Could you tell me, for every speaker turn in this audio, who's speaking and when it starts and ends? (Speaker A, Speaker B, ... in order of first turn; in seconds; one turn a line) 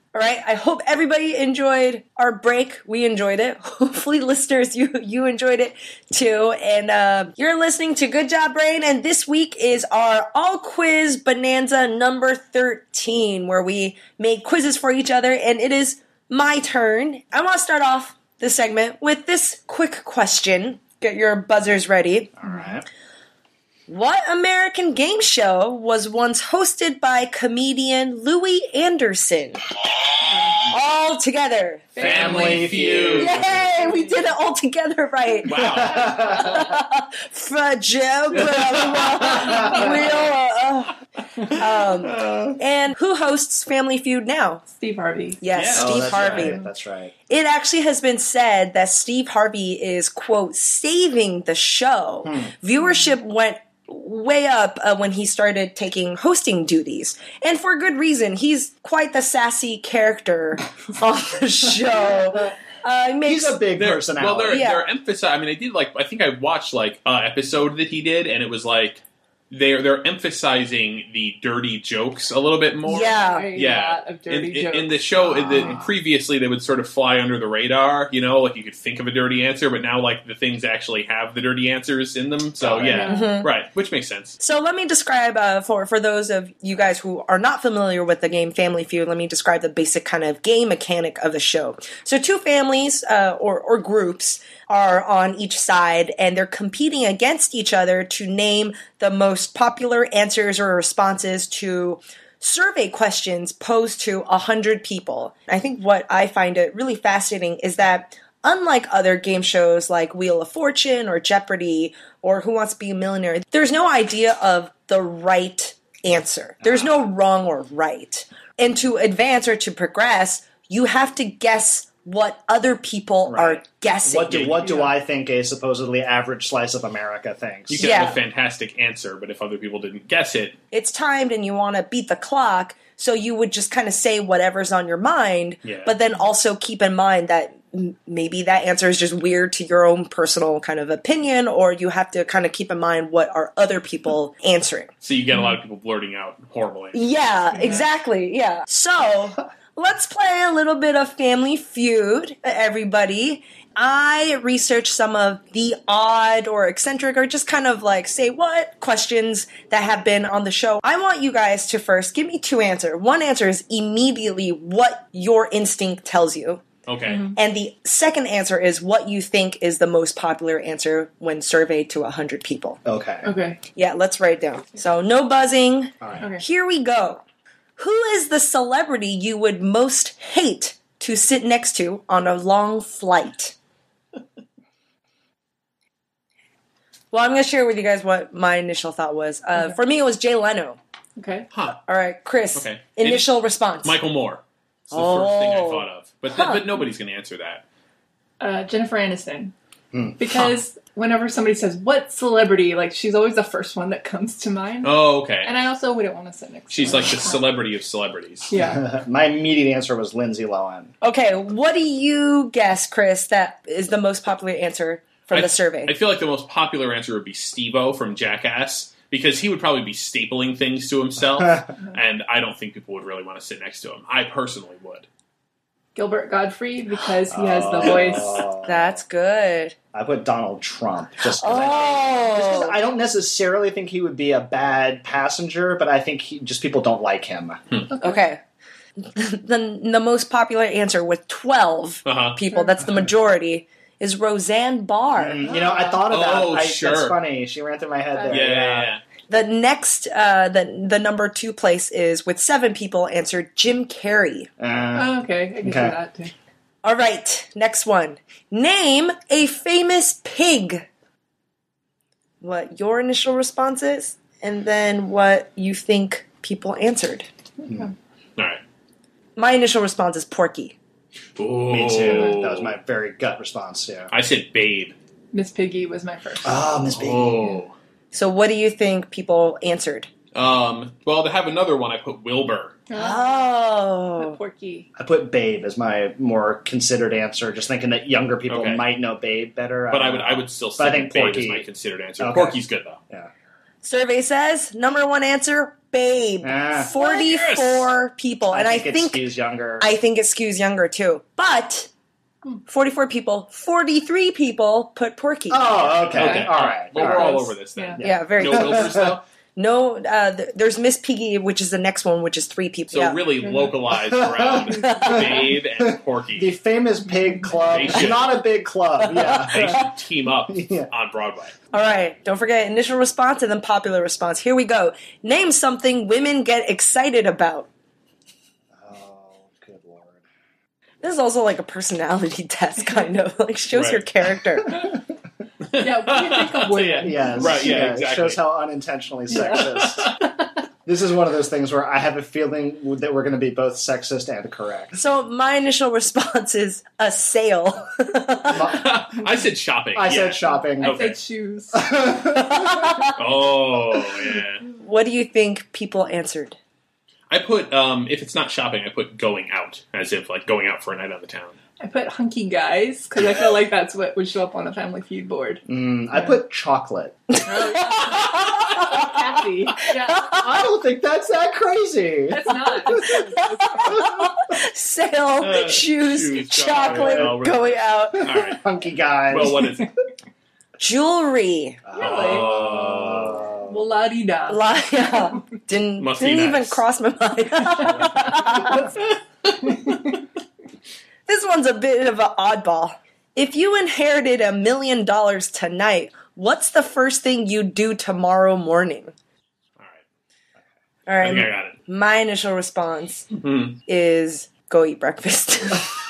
Speaker A: 0.1-22.3
Speaker B: 22.4-22.9
Speaker A: 23.9-29.6
Speaker C: 30.3-30.6
Speaker A: 30.6-31.9
Speaker C: 31.9-34.3
Speaker B: 32.0-33.5
Speaker D: 32.0-33.4
Speaker A: 33.2-44.6
Speaker D: 35.5-36.4
Speaker B: 35.5-36.5
Speaker D: 39.0-39.6
Speaker B: 39.4-39.7
Speaker D: 42.1-42.5
Speaker C: 44.7-45.4
Speaker A: 45.4-46.6
Speaker D: 45.5-46.5
Speaker B: 45.7-47.1
Speaker A: 47.3-63.6
Speaker B: 52.2-52.5
Speaker B: 63.2-64.6
Speaker D: 63.8-84.4
Speaker A: 64.5-64.9
Speaker A: 72.9-73.5
Speaker C: 72.9-75.8
Speaker B: 82.6-83.1
Speaker C: 82.9-83.3
Speaker A: 83.1-83.5
Speaker A: 84.4-124.8
Speaker B: 116.6-117.1
Speaker B: 123.2-128.0
Speaker D: 127.7-130.6
Speaker A: 127.8-128.2
Speaker A: 130.7-144.9
Speaker D: 135.7-135.9
Speaker D: 145.0-147.1
Speaker A: 146.9-166.6
Speaker C: 147.5-147.8
Speaker D: 166.9-167.2
Speaker C: 167.1-167.4
Speaker A: 167.3-172.8
Speaker B: 172.8-173.3
Speaker C: 173.2-173.6
Speaker A: 173.7-177.2
Speaker A: 177.8-183.5
Speaker A: 187.1-190.8
Speaker C: 191.2-191.5
Speaker D: 191.5-191.8
Speaker A: 191.9-194.0
Speaker D: 192.5-197.6
Speaker A: 194.9-196.6
Speaker C: 198.4-199.5
Speaker B: 199.9-200.2
Speaker C: 200.2-207.4
Speaker D: 204.8-205.5
Speaker D: 206.7-208.5
Speaker C: 208.5-208.8
Speaker B: 208.6-210.9
Speaker A: 211.0-215.9
Speaker D: 215.3-225.1
Speaker C: 225.9-228.4
Speaker B: 227.3-229.0
Speaker A: 228.6-229.8
Speaker B: 229.9-237.6
Speaker A: 231.4-232.7
Speaker A: 238.0-238.4
Speaker A: 239.0-245.4
Speaker D: 242.0-242.4
Speaker B: 245.1-248.9
Speaker C: 245.4-246.0
Speaker D: 246.1-247.2
Speaker C: 248.1-248.4
Speaker D: 248.3-249.0
Speaker A: 249.3-254.5
Speaker B: 254.6-255.9
Speaker C: 254.9-256.3
Speaker A: 256.8-260.8
Speaker A: 262.4-267.3
Speaker C: 267.6-267.9
Speaker A: 269.4-270.7
Speaker D: 271.4-272.7
Speaker B: 271.7-274.1
Speaker D: 274.1-274.9
Speaker C: 275.3-276.6
Speaker B: 276.4-277.6
Speaker D: 276.9-277.7
Speaker A: 278.1-280.1
Speaker D: 280.3-282.8
Speaker C: 282.9-283.5
Speaker A: 282.9-284.4
Speaker C: 284.2-284.9
Speaker B: 284.9-291.6
Speaker D: 288.5-288.8
Speaker D: 289.9-293.0
Speaker B: 292.2-292.6
Speaker A: 293.8-299.2
Speaker B: 296.4-296.9
Speaker D: 296.9-297.9
Speaker B: 298.5-299.9
Speaker A: 299.8-301.9
Speaker A: 302.7-306.1
Speaker B: 305.5-307.4
Speaker D: 306.1-309.2
Speaker C: 306.2-308.0
Speaker B: 308.0-309.2
Speaker A: 308.0-313.2
Speaker D: 312.9-316.5
Speaker C: 313.4-313.7
Speaker B: 313.9-319.9
Speaker A: 314.9-315.2
Speaker C: 317.3-317.6
Speaker D: 317.7-318.4
Speaker A: 319.0-319.8
Speaker D: 319.4-321.5
Speaker B: 320.5-320.9
Speaker A: 321.7-327.7
Speaker B: 328.7-330.2
Speaker A: 331.0-334.9
Speaker D: 333.7-334.0
Speaker D: 335.7-338.4
Speaker C: 335.8-337.8
Speaker B: 337.0-340.1
Speaker D: 339.6-340.1
Speaker B: 340.9-345.0
Speaker A: 344.9-348.7
Speaker B: 348.5-349.0
Speaker D: 348.7-351.2
Speaker B: 349.9-351.0
Speaker C: 350.4-351.9
Speaker B: 351.7-352.9
Speaker A: 352.3-353.1
Speaker D: 353.1-354.6
Speaker A: 354.8-356.6
Speaker D: 357.3-361.6
Speaker C: 361.8-365.6
Speaker B: 365.6-367.2
Speaker C: 367.4-370.3
Speaker A: 367.9-369.0
Speaker B: 370.2-373.2
Speaker C: 372.3-374.1
Speaker A: 373.7-378.2
Speaker D: 375.4-378.6
Speaker B: 376.7-377.4
Speaker B: 378.2-379.7
Speaker D: 379.3-379.9
Speaker A: 380.8-381.8
Speaker B: 381.9-383.8
Speaker C: 381.9-382.5
Speaker D: 382.0-383.5
Speaker C: 383.7-384.6
Speaker A: 384.5-388.9
Speaker D: 386.0-386.8
Speaker C: 389.6-390.1
Speaker A: 391.3-399.1
Speaker D: 399.8-400.0
Speaker A: 401.1-403.3
Speaker D: 401.2-401.8
Speaker D: 403.3-403.8
Speaker A: 403.9-405.9